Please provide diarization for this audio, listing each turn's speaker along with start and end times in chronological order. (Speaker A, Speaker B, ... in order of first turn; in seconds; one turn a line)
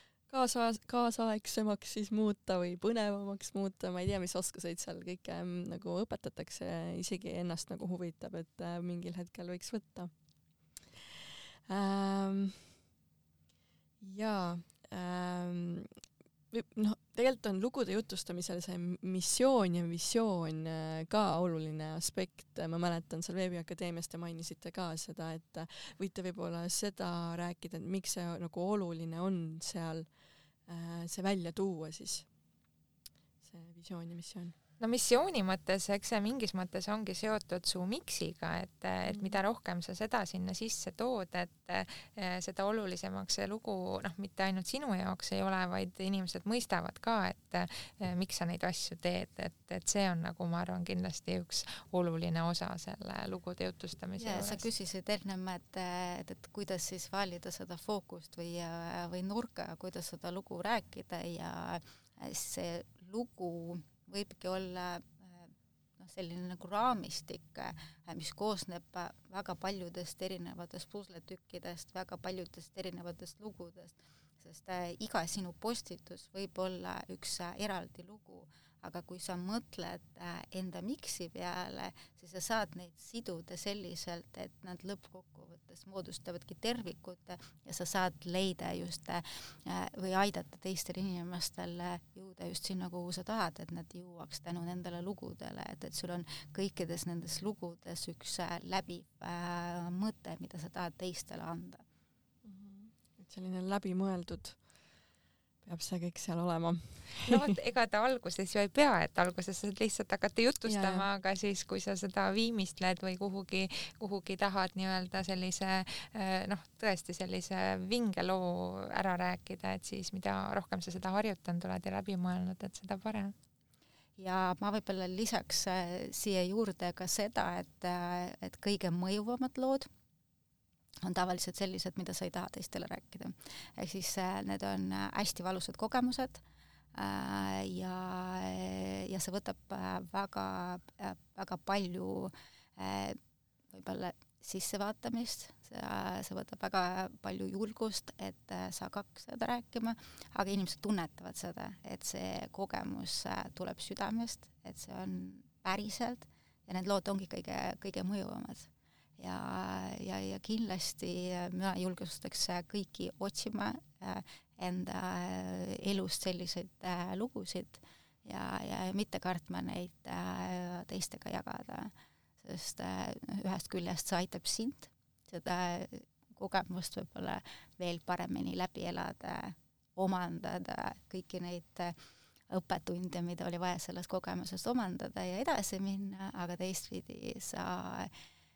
Speaker A: 0.3-10.1
Speaker A: 11.7-12.7
Speaker A: 14.0-15.9
Speaker A: 16.5-30.1
Speaker A: 30.7-32.3
Speaker A: 33.4-34.5
Speaker B: 34.8-54.7
Speaker A: 39.1-39.4
Speaker C: 54.2-101.8
Speaker A: 102.4-104.6
Speaker A: 105.6-107.5
Speaker B: 107.2-123.3
Speaker A: 110.7-111.1
Speaker C: 124.2-129.9
Speaker C: 131.0-136.4
Speaker C: 136.9-143.2
Speaker C: 143.7-181.9
Speaker C: 182.5-188.1